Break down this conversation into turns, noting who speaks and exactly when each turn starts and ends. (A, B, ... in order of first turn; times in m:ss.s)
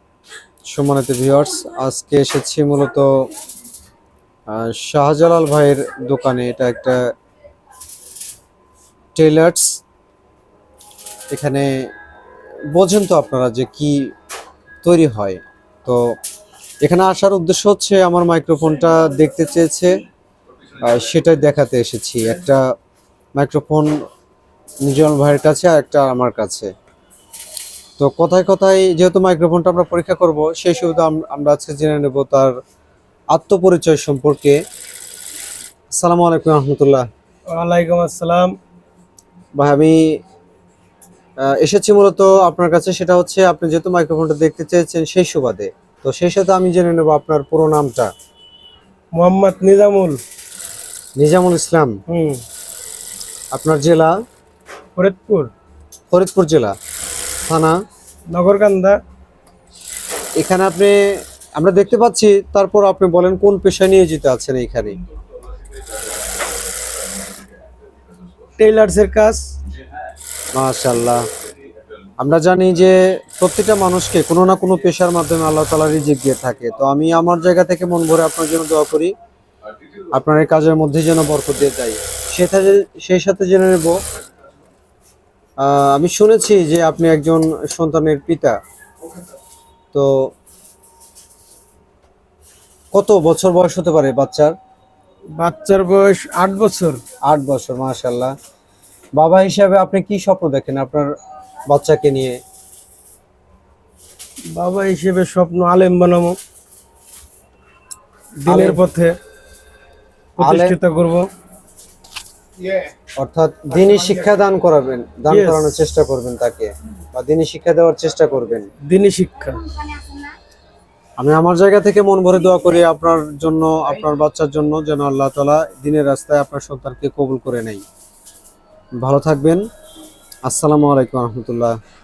0:00.7-0:03.1 A
0:04.5-0:07.0 A
0:09.1-0:09.8 A
0:11.3-0:11.7 A
0:12.7-0:14.0 A
0:14.8-0:16.0 A
0:16.8-0:19.9 A
0:20.8-0:22.6 A
0:23.4-0:23.9 A
0:24.8-0:26.7 A
0:28.0-0:32.5 A
0:33.3-0:34.6 A
0:36.0-0:37.0 A
0:37.5-0:38.6 B
0:39.6-0:40.0 A
0:41.4-0:48.1 A
0:49.2-0:50.2 B
0:51.2-0:52.0 A
0:52.1-0:52.4 B
0:53.5-0:54.1 A
0:55.0-0:55.5 B
0:56.1-0:56.8 A
0:57.5-0:57.8 A
0:58.3-0:59.0 B
1:00.4-1:01.0 A
1:01.6-1:05.0 A
1:08.6-1:09.5 B
1:10.6-1:11.2 A
1:12.2-1:19.1 A
1:20.1-1:24.0 A
1:25.6-1:28.6 A
1:29.9-1:30.3 A
1:32.9-1:34.5 A
1:35.4-1:37.0 B
1:37.2-1:38.3 A
1:39.2-1:41.1 A
1:41.7-1:42.4 A
1:44.5-1:46.4 B
1:48.4-1:49.2 B
1:48.5-1:48.8 A
1:50.4-1:51.3 B
1:50.4-1:50.8 A
1:53.2-1:58.7 A
1:55.3-1:55.7 B
1:58.9-1:59.7 B
2:01.2-2:07.8 A
2:09.0-2:09.6 A
2:10.4-2:11.7 A